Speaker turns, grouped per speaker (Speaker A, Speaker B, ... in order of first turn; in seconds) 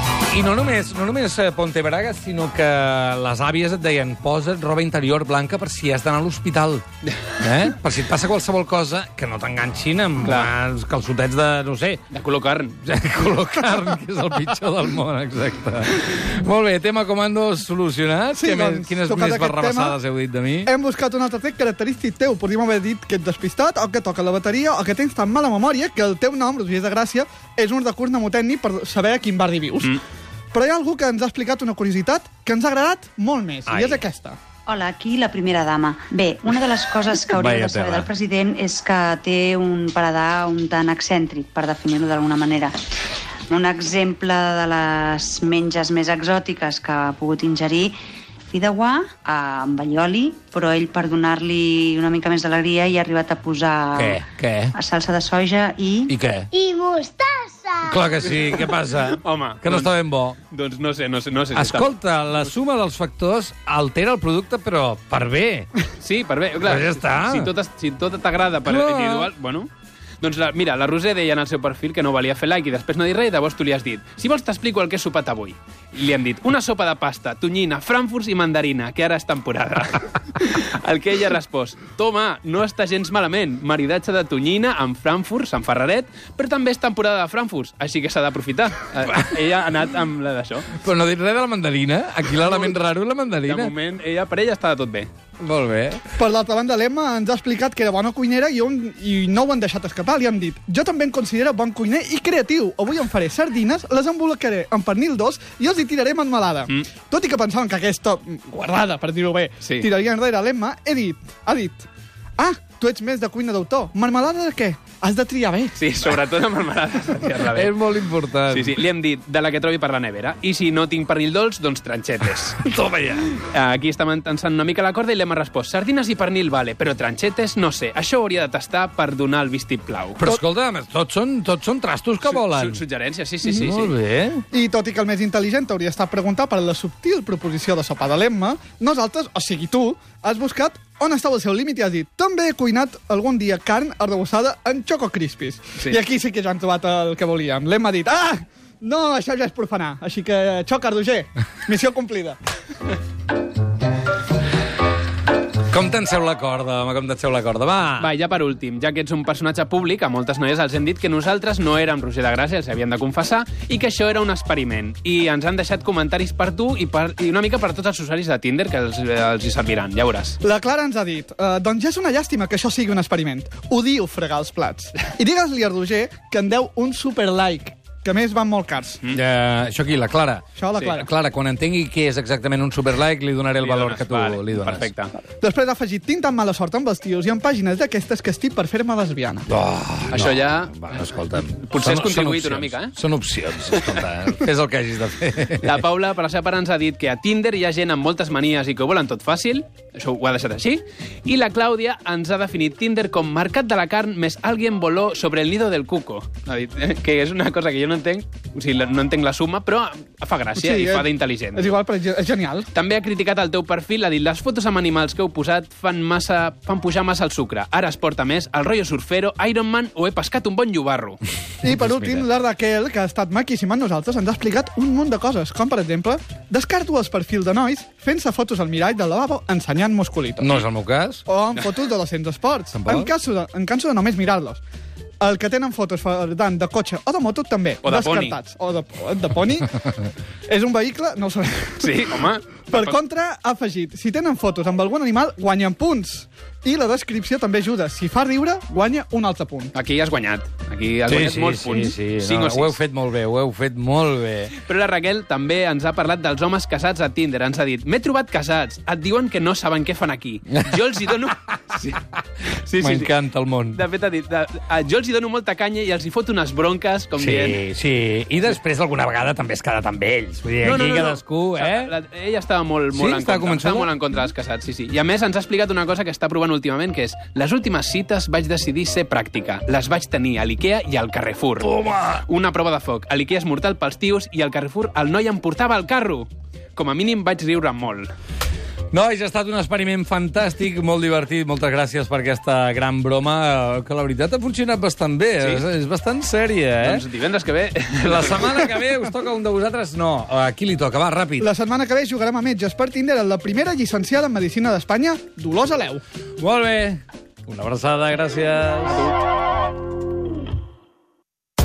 Speaker A: 0.3-6.8, 7.4-12.0, 12.8-20.7, 33.7-34.0, 37.4-38.1, 54.0-54.8, 56.1-56.5, 57.8-60.4, 61.5-65.7, 66.6-67.5, 68.7-69.3, 89.1-89.3, 90.7-93.7, 95.4-96.0, 117.5-118.8, 122.6-123.4, 130.2-132.8, 133.5-134.4, 155.7-158.1, 179.1-180.4, 181.0-184.9, 189.5-195.8, 221.7-222.2, 230.4-231.2, 232.7-233.1, 251.1-254.5, 262.8-263.8, 267.2-271.9, 272.9-273.9, 281.6-282.2, 288.9-297.0, 297.9-301.5, 306.4-309.0
Speaker B: 10.2-10.5, 12.1-12.8, 59.0-59.9, 60.5-62.5, 66.0-69.7, 70.2-90.8, 92.5-92.7, 93.5-95.1, 109.6-109.9, 115.8-117.8, 118.5-122.6, 123.3-130.2, 132.2-134.0, 158.0-170.4, 183.6-185.1, 190.1-191.0, 191.5-192.9, 195.6-211.8, 212.7-221.2, 237.8-238.4, 241.8-243.0, 249.7-252.8, 254.6-263.1, 263.7-267.6, 270.6-288.1, 295.4-295.6, 296.8-298.4, 308.8-309.1
Speaker C: 18.3-20.0, 20.6-30.0, 30.5-34.4, 96.2-111.9, 112.4-115.8, 134.5-152.4, 170.4-179.0, 180.6-181.1, 185.4-189.5, 210.6-212.7, 221.6-230.6, 231.3-234.6, 235.2-239.8, 240.5-242.1, 242.7-249.7, 301.4-306.0
Speaker D: 34.7-42.7, 43.5-48.0, 48.5-54.2, 54.7-56.8
Speaker E: 36.8-38.1, 56.5-57.8